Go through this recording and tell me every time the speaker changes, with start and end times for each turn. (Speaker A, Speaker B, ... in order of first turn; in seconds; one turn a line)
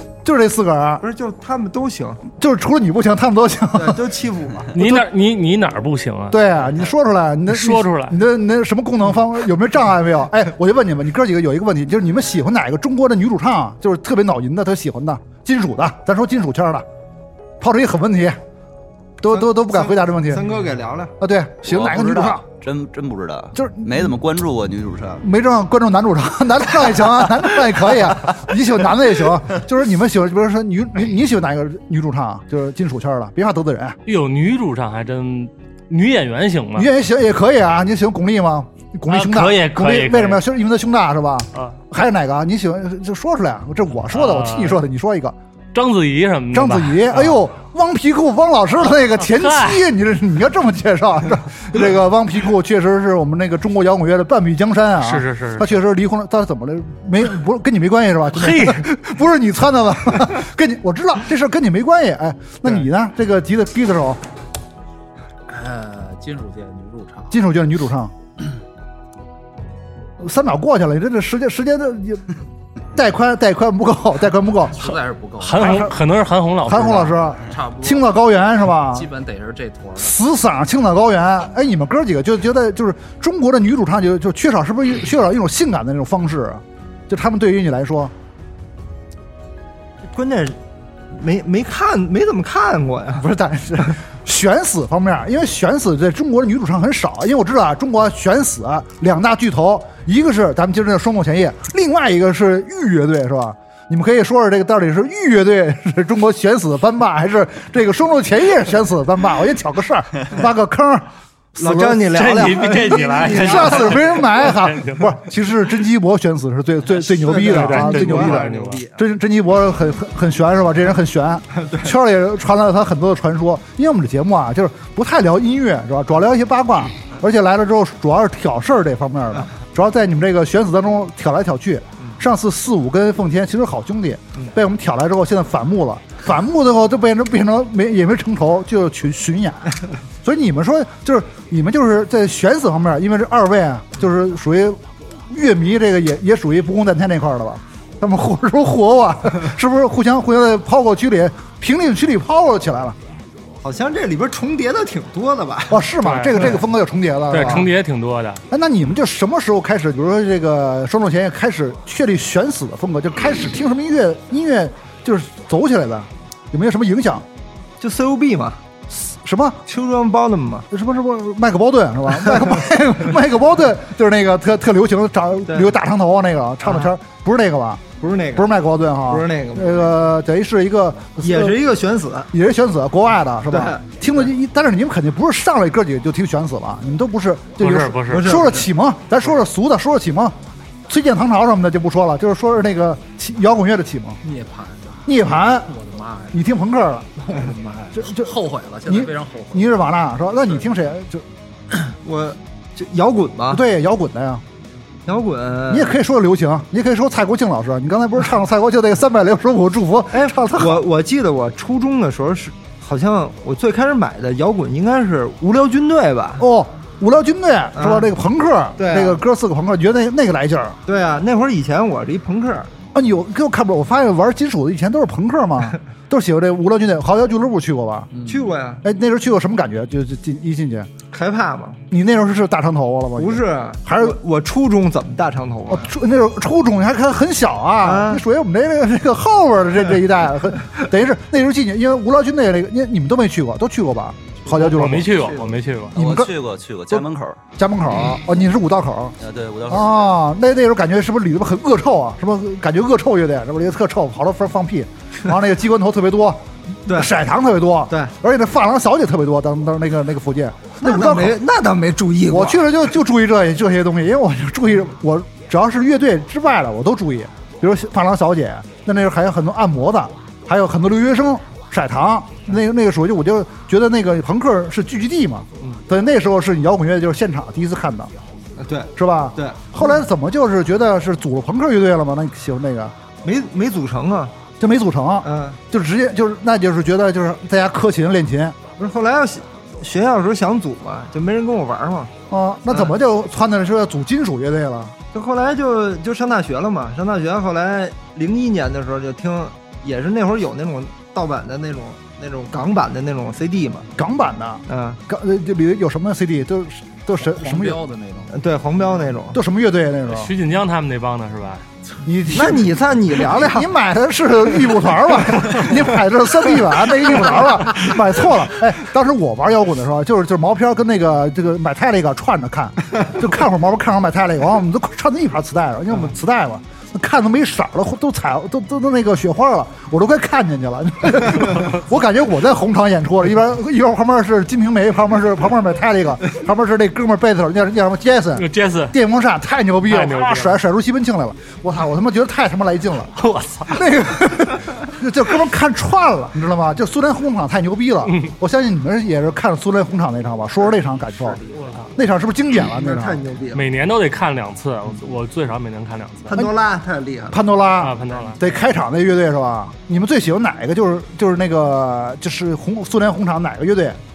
Speaker A: 0.2-1.0
Speaker B: 1.0-2.2
Speaker A: 2.4-4.0
Speaker B: 3.7-4.7
Speaker A: 4.7-5.0
Speaker C: 4.8-6.4
Speaker A: 6.3-16.9
Speaker C: 7.5-8.2
Speaker A: 17.6-18.4
Speaker A: 19.2-20.5
Speaker B: 19.3-21.1
Speaker A: 21.2-22.4
Speaker D: 21.6-25.2
Speaker A: 23.5-24.1
Speaker A: 25.2-34.0
Speaker C: 34.0-36.9
Speaker A: 36.7-45.3
Speaker C: 39.1-40.4
Speaker C: 44.1-44.8
Speaker C: 45.7-47.4
Speaker A: 46.5-64.2
Speaker C: 49.3-49.8
Speaker C: 55.0-55.7
Speaker C: 58.3-58.8
Speaker E: 65.5-67.3
Speaker A: 67.3-68.1
Speaker A: 70.2-72.3
Speaker A: 72.9-74.8
Speaker E: 74.7-75.9
Speaker C: 75.4-77.2
Speaker A: 75.6-75.9
Speaker A: 76.6-79.1
Speaker E: 77.4-78.2
Speaker E: 78.8-80.2
Speaker A: 80.0-88.1
Speaker B: 90.1-90.6
Speaker B: 91.1-93.3
Speaker A: 93.2-112.0
Speaker B: 111.6-114.1
Speaker C: 112.1-115.1
Speaker A: 113.3-139.7
Speaker B: 116.9-119.0
Speaker C: 117.4-118.8
Speaker B: 121.5-121.9
Speaker A: 140.2-153.0
Speaker B: 153.6-155.9
Speaker A: 155.7-157.7
Speaker C: 156.0-156.6
Speaker C: 157.3-158.4
Speaker A: 158.5-167.2
Speaker B: 167.8-168.6
Speaker A: 169.1-169.6
Speaker B: 169.7-170.7
Speaker A: 170.7-181.6
Speaker B: 175.5-175.7
Speaker B: 178.0-178.5
Speaker B: 179.1-179.9
Speaker B: 181.2-182.3
Speaker A: 182.3-190.3
Speaker B: 183.5-183.8
Speaker C: 187.6-188.4
Speaker B: 188.1-188.7
Speaker A: 190.9-194.2
Speaker E: 194.2-196.4
Speaker A: 195.1-195.7
Speaker A: 196.3-197.4
Speaker E: 197.2-199.8
Speaker A: 197.9-198.3
Speaker A: 198.8-201.2
Speaker B: 202.0-203.6
Speaker A: 203.5-204.4
Speaker B: 205.1-206.0
Speaker A: 205.7-210.8
Speaker B: 210.1-216.5
Speaker A: 216.4-220.8
Speaker B: 217.8-218.1
Speaker B: 218.8-219.2
Speaker B: 220.9-222.7
Speaker A: 222.9-228.1
Speaker E: 228.1-228.4
Speaker B: 228.2-228.8
Speaker A: 228.8-230.9
Speaker B: 231.1-231.8
Speaker A: 231.9-234.2
Speaker B: 233.2-235.9
Speaker A: 235.7-245.2
Speaker B: 237.8-238.2
Speaker E: 244.5-245.6
Speaker C: 244.6-245.9
Speaker A: 245.9-246.4
Speaker D: 245.9-247.4
Speaker A: 246.9-249.2
Speaker D: 249.2-250.1
Speaker A: 249.7-261.4
Speaker B: 256.9-257.1
Speaker B: 260.8-262.7
Speaker A: 262.3-278.1
Speaker B: 278.6-280.0
Speaker A: 278.9-282.9
Speaker B: 283.2-284.3
Speaker A: 284.6-288.6
Speaker B: 285.2-285.6
Speaker B: 288.8-292.1
Speaker A: 292.3-294.9
Speaker B: 295.1-303.9
Speaker A: 304.0-307.8
Speaker B: 304.7-305.0
Speaker E: 307.2-308.4
Speaker B: 308.3-309.4
Speaker A: 309.3-310.3
Speaker C: 310.1-311.6
Speaker A: 312.0-312.8
Speaker B: 312.3-313.7
Speaker A: 313.3-343.1
Speaker C: 338.4-338.9
Speaker C: 339.8-340.6
Speaker C: 343.2-343.9
Speaker A: 343.7-351.4
Speaker C: 348.1-348.3
Speaker E: 351.1-351.9
Speaker C: 351.6-351.9
Speaker A: 351.9-353.2
Speaker B: 352.7-353.6
Speaker C: 353.5-356.4
Speaker B: 356.3-357.4
Speaker A: 357.3-364.0
Speaker C: 357.8-358.4
Speaker E: 358.1-358.7